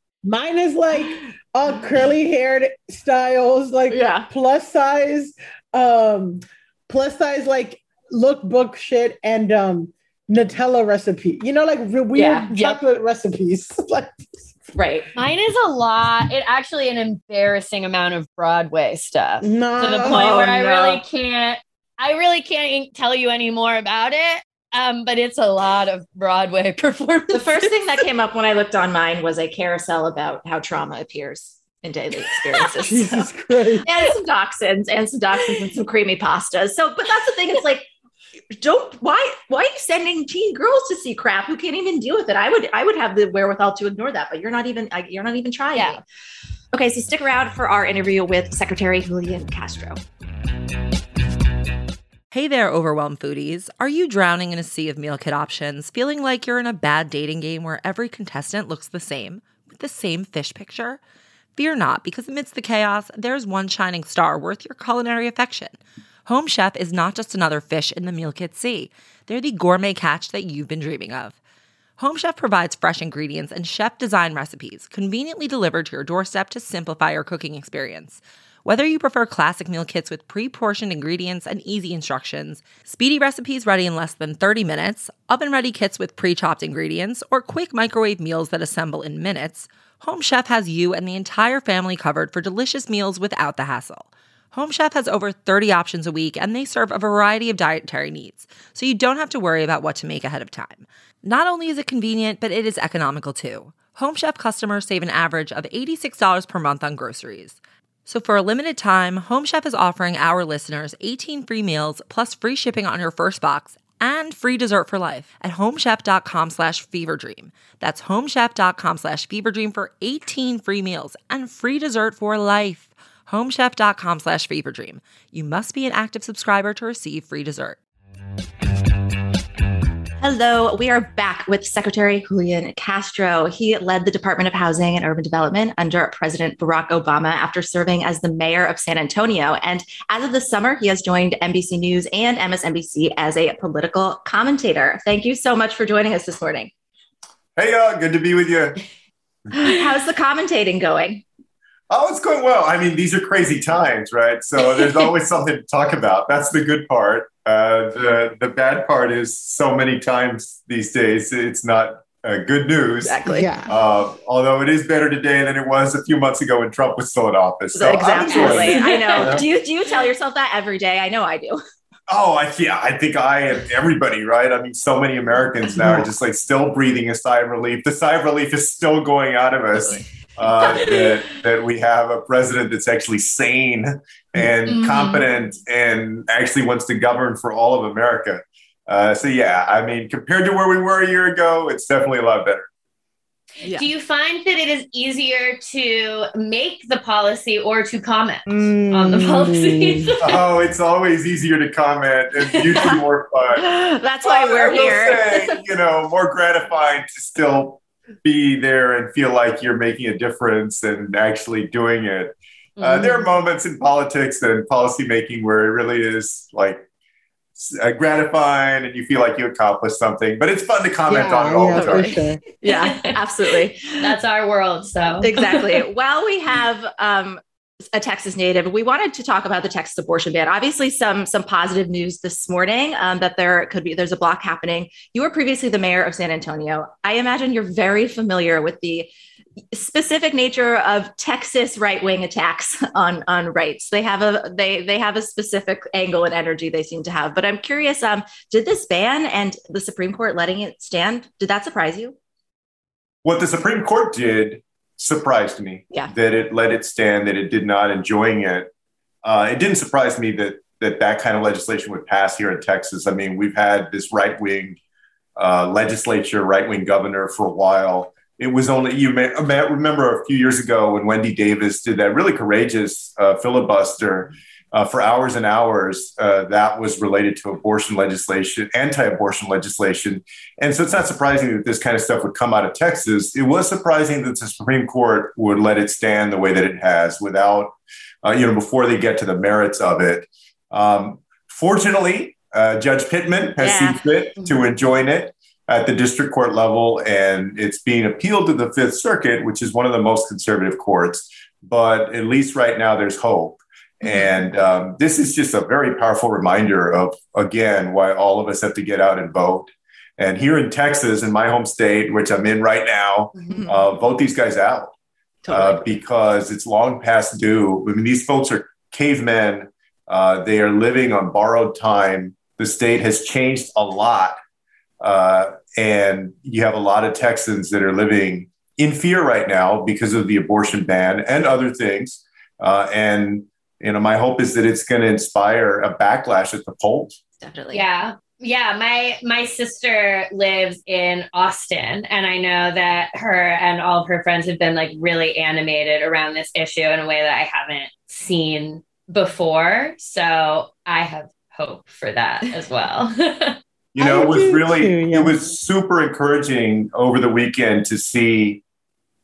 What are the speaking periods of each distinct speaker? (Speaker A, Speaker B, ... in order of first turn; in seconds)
Speaker A: 0.2-14.6, 19.4-20.2, 32.9-33.9, 163.2-163.7, 198.5-200.1, 221.1-222.4, 354.0-355.3
Speaker B: 3.9-4.3, 12.1-12.4, 14.7-15.1, 20.0-21.0, 27.3-33.2, 33.8-37.9, 38.6-46.0, 46.7-50.0, 130.2-146.7, 149.6-151.2, 163.0-163.5, 167.7-171.6, 180.6-181.3, 202.7-203.0, 203.6-205.6, 221.7-224.1, 225.2-227.4, 227.9-239.1, 239.7-252.2, 293.6-294.0, 313.5-313.8, 315.4-315.8, 337.4-337.8
Speaker C: 12.5-12.8, 15.1-27.6, 45.7-46.0, 168.4-169.4, 184.7-185.2, 193.6-200.4, 212.8-213.2, 222.7-225.7, 337.7-353.6
Speaker D: 52.3-61.0, 61.5-71.4, 72.0-127.8
Speaker E: 147.6-148.8, 151.9-169.4, 172.1-192.7, 200.2-203.7, 204.2-216.8, 217.6-222.2, 253.2-258.7, 259.2-264.8, 265.4-314.9, 315.5-324.4, 325.0-337.2, 353.9-358.6